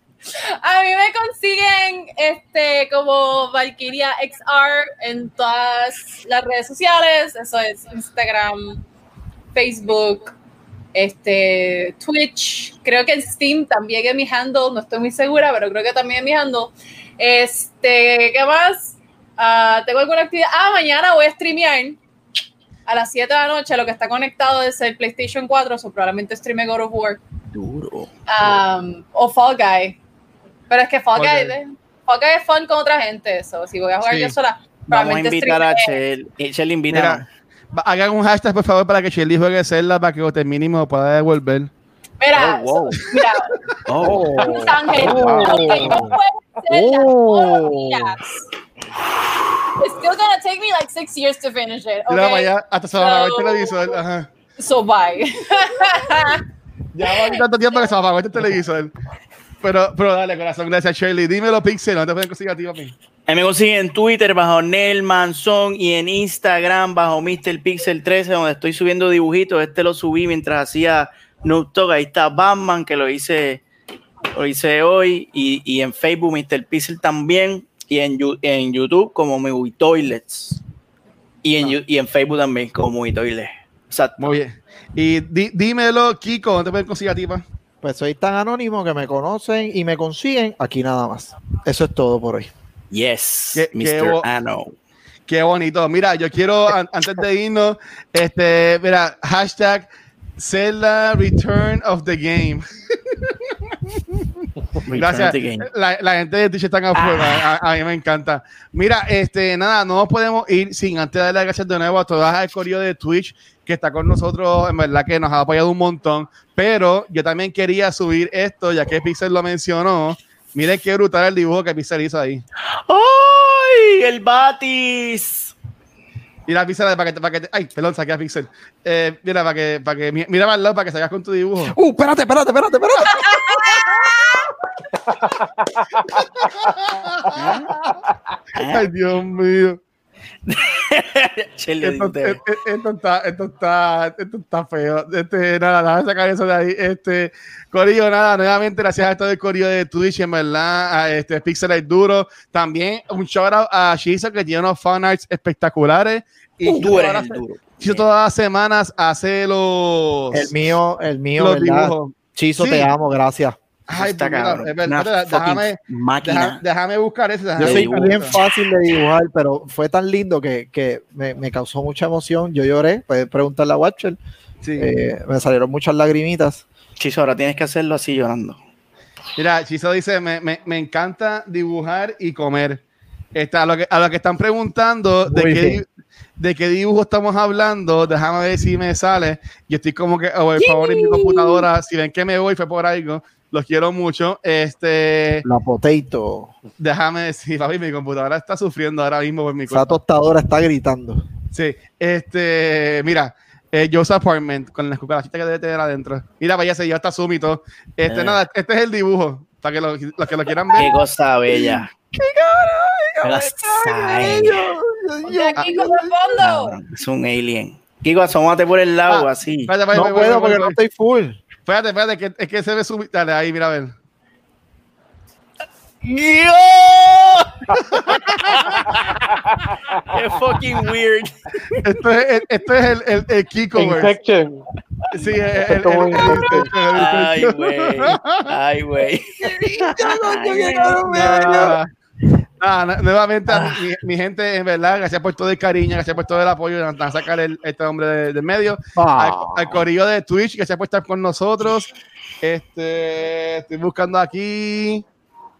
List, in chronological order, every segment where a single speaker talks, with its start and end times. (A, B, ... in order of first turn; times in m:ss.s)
0:00.6-0:08.8 A
0:09.5-0:10.3 A
0:10.9-0:22.0 A
0:22.9-0:27.2 A
0:27.5-0:28.1 B
0:28.3-0:30.0 A
0:30.7-0:36.0 A
0:31.2-0:31.5 C
0:34.0-0:34.3 C
0:34.9-0:37.2 B
0:36.9-0:41.7 C
0:42.2-0:43.6 A
0:42.4-0:42.9 D
0:43.9-0:45.8 B
0:44.0-0:46.2 D
0:44.4-0:48.4 A
0:45.3-0:46.0 E
0:46.7-0:48.1 D
0:49.8-0:54.0 A
0:52.1-0:54.3 C
0:54.6-0:56.4 A
0:56.9-0:58.9 C
0:57.0-0:57.4 A
0:59.6-1:02.9 C
1:03.3-1:13.6 B
1:14.3-1:20.6 B
1:21.4-1:24.3 B
1:24.2-1:27.4 C
1:27.8-1:32.5 D
1:32.9-1:34.7 B
1:33.5-1:34.2 C
1:35.3-1:43.5 C
1:44.8-1:45.7 B
1:44.9-2:02.4 C
1:46.9-1:47.5 B
2:02.9-2:05.5 B
2:06.5-2:11.7 C
2:11.6-2:14.1 D
2:13.0-2:14.5 A
2:15.1-2:18.1 E
2:16.7-2:17.8 C
2:17.4-2:17.7 B
2:18.6-2:18.9 B
2:18.6-2:19.8 C
2:20.4-2:22.4 B
2:21.8-2:40.5 C
2:36.6-2:38.0 B
2:40.3-2:43.6 D
2:41.4-2:42.9 C
2:43.9-2:48.4 C
2:44.0-2:46.6 B
2:47.6-2:48.6 B
2:47.6-2:54.2 D
2:54.6-2:54.9 C
2:54.8-2:56.6 D
2:57.0-2:58.6 B
2:59.4-3:02.8 C
3:03.3-3:05.9 C
3:05.3-3:05.8 D
3:06.4-3:15.4 C
3:10.6-3:11.6 B
3:15.4-3:16.5 D
3:16.8-3:20.0 C
3:19.7-3:21.3 D
3:21.5-3:30.9 C
3:28.1-3:28.4 B
3:30.8-3:31.9 B
3:31.5-3:36.1 D
3:33.2-3:34.7 B
3:35.2-3:36.8 A
3:36.4-3:39.7 B
3:39.1-3:40.8 C
3:39.9-3:41.4 D
3:41.6-3:43.9 C
3:46.0-3:49.1 B
3:47.9-3:48.9 C
3:49.0-3:50.1 E
3:50.0-3:51.8 B
3:51.8-3:54.1 C
3:53.8-3:54.6 E
3:55.1-3:58.6 C
3:55.6-3:56.7 E
3:56.2-4:01.6 B
3:59.4-4:01.8 D
4:01.1-4:01.9 C
4:02.6-4:11.9 C
4:03.5-4:03.9 B
4:09.0-4:09.8 D
4:12.4-4:15.0 C